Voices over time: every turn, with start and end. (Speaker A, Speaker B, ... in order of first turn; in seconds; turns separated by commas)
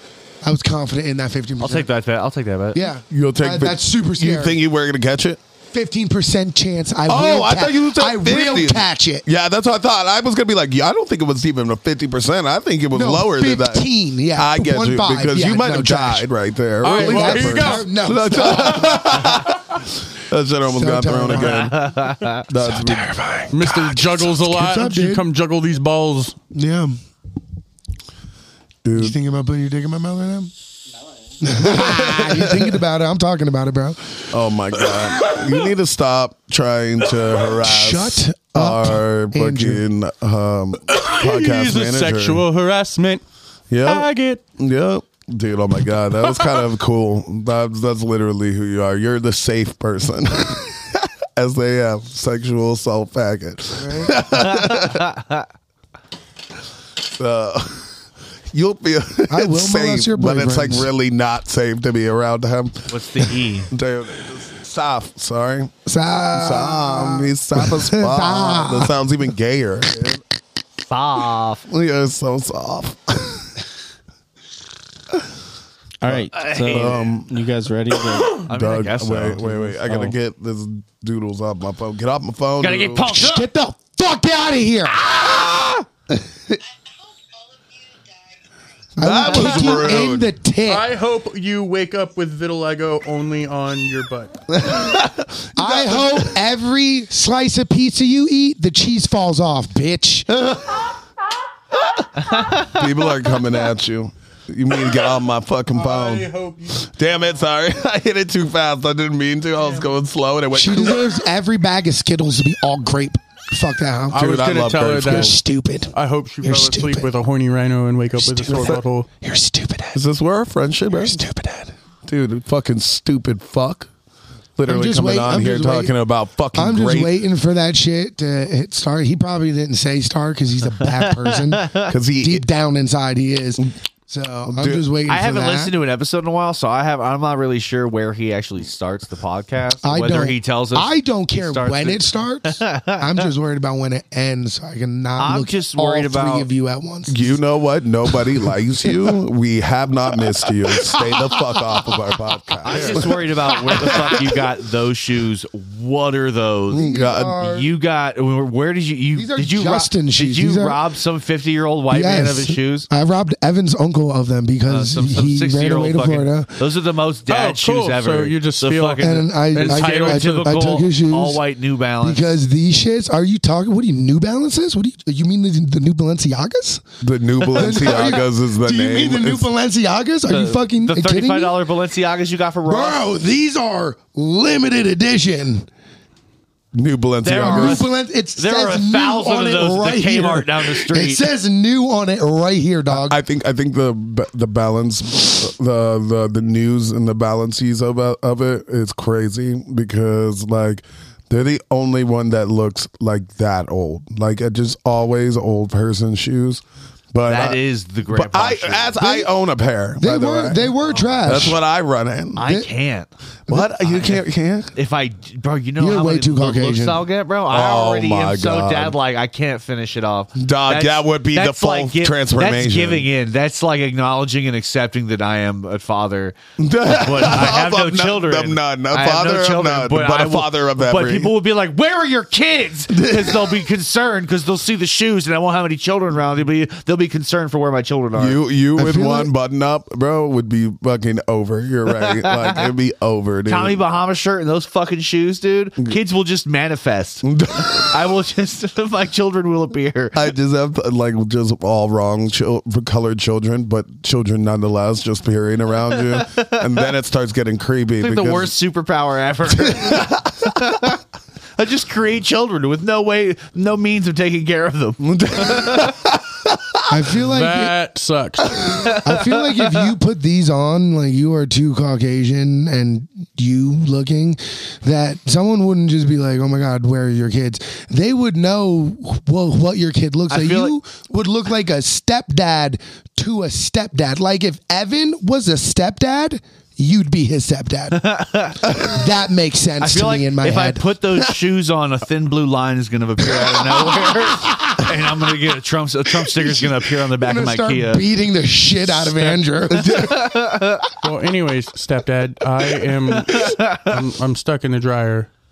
Speaker A: 0.4-1.9, Speaker B: 1.6-2.8, Speaker A: 2.7-4.6, Speaker C: 3.1-5.4, Speaker A: 5.7-9.2, Speaker C: 7.1-23.1, Speaker A: 12.9-16.3, Speaker D: 16.8-17.9, Speaker A: 16.8-19.5, Speaker D: 18.4-18.9, Speaker A: 20.7-21.7, Speaker B: 21.3-22.5, Speaker A: 22.6-25.2, Speaker D: 23.5-26.4, Speaker A: 26.5-27.0, Speaker C: 28.8-29.2, Speaker A: 28.9-30.5, Speaker A: 31.4-34.3, Speaker C: 31.9-32.6, Speaker C: 34.3-42.4, Speaker A: 37.5-39.8, Speaker D: 40.9-43.2, Speaker C: 43.7-55.2, Speaker D: 43.8-44.4, Speaker D: 46.3-46.6, Speaker A: 53.8-54.2, Speaker C: 57.2-57.9, Speaker C: 58.5-62.9, Speaker A: 59.3-60.9, Speaker B: 62.9-63.7, Speaker C: 63.7-65.7, Speaker A: 65.9-69.0, Speaker C: 66.3-70.2, Speaker B: 70.9-71.6, Speaker C: 71.7-73.5, Speaker E: 76.0-78.5, Speaker B: 76.3-77.1, Speaker C: 76.7-77.3, Speaker C: 78.4-83.2, Speaker B: 78.5-80.1, Speaker E: 79.9-80.1, Speaker B: 82.6-83.5, Speaker A: 83.1-85.0, Speaker C: 85.1-85.8, Speaker A: 89.0-90.9, Speaker C: 89.0-90.3, Speaker D: 90.7-94.4, Speaker C: 94.5-96.2, Speaker A: 95.6-100.3, Speaker C: 100.4-100.8, Speaker C: 102.5-111.0, Speaker D: 105.7-106.9, Speaker D: 109.6-109.9, Speaker A: 110.5-114.2, Speaker D: 114.1-115.4, Speaker C: 114.2-115.3, Speaker A: 115.0-117.1, Speaker D: 115.9-119.1, Speaker A: 118.2-120.0, Speaker C: 118.5-118.8, Speaker C: 120.0-121.2, Speaker A: 120.9-121.7, Speaker C: 122.1-123.9, Speaker C: 124.6-127.2, Speaker A: 124.7-125.9, Speaker A: 126.5-135.7, Speaker B: 130.9-131.9, Speaker C: 131.9-132.4, Speaker C: 134.5-134.8, Speaker B: 135.1-143.2, Speaker A: 139.8-147.4, Speaker B: 145.2-146.5, Speaker C: 147.1-153.2, Speaker A: 150.8-151.3, Speaker B: 152.6-162.9, Speaker A: 152.7-153.0, Speaker A: 153.7-154.2, Speaker A: 156.7-157.7, Speaker C: 156.9-157.4, Speaker A: 159.2-160.8, Speaker A: 161.9-166.6, Speaker B: 164.7-172.3, Speaker D: 167.3-170.5, Speaker A: 169.0-171.4, Speaker A: 172.0-176.8, Speaker C: 177.0-179.4, Speaker B: 177.4-178.1, Speaker A: 177.5-181.6, Speaker B: 180.3-183.0, Speaker A: 182.7-185.7, Speaker C: 186.7-187.8, Speaker B: 187.2-191.3, Speaker A: 187.3-193.2, Speaker C: 192.9-206.6, Speaker C: 207.1-207.6, Speaker B: 207.3-209.3, Speaker C: 208.1-210.7, Speaker A: 210.0-211.6, Speaker B: 210.8-211.5, Speaker C: 211.3-212.4, Speaker B: 212.4-213.1, Speaker A: 212.4-212.7, Speaker C: 213.5-214.7, Speaker B: 213.8-214.2, Speaker B: 214.7-238.4, Speaker A: 215.8-217.0, Speaker C: 217.5-219.0, Speaker C: 220.4-223.1, Speaker C: 226.6-231.3, Speaker C: 232.9-233.6, Speaker C: 238.2-243.8, Speaker A: 238.8-239.3, Speaker B: 242.2-242.7, Speaker B: 243.5-250.2, Speaker C: 247.2-248.0, Speaker C: 250.2-258.5, Speaker B: 256.2-256.5, Speaker B: 258.0-260.9, Speaker C: 259.6-260.6, Speaker B: 261.6-265.9, Speaker C: 265.0-266.2, Speaker A: 266.9-267.7, Speaker D: 267.2-268.8, Speaker B: 268.7-269.9, Speaker A: 268.8-288.1, Speaker B: 280.3-280.8, Speaker B: 287.9-288.6, Speaker A: 288.6-290.9, Speaker B: 289.8-298.1, Speaker A: 294.0-294.8, Speaker A: 296.4-300.3, Speaker C: 299.7-300.4, Speaker B: 299.8-300.9, Speaker D: 301.0-305.3, Speaker B: 303.2-303.9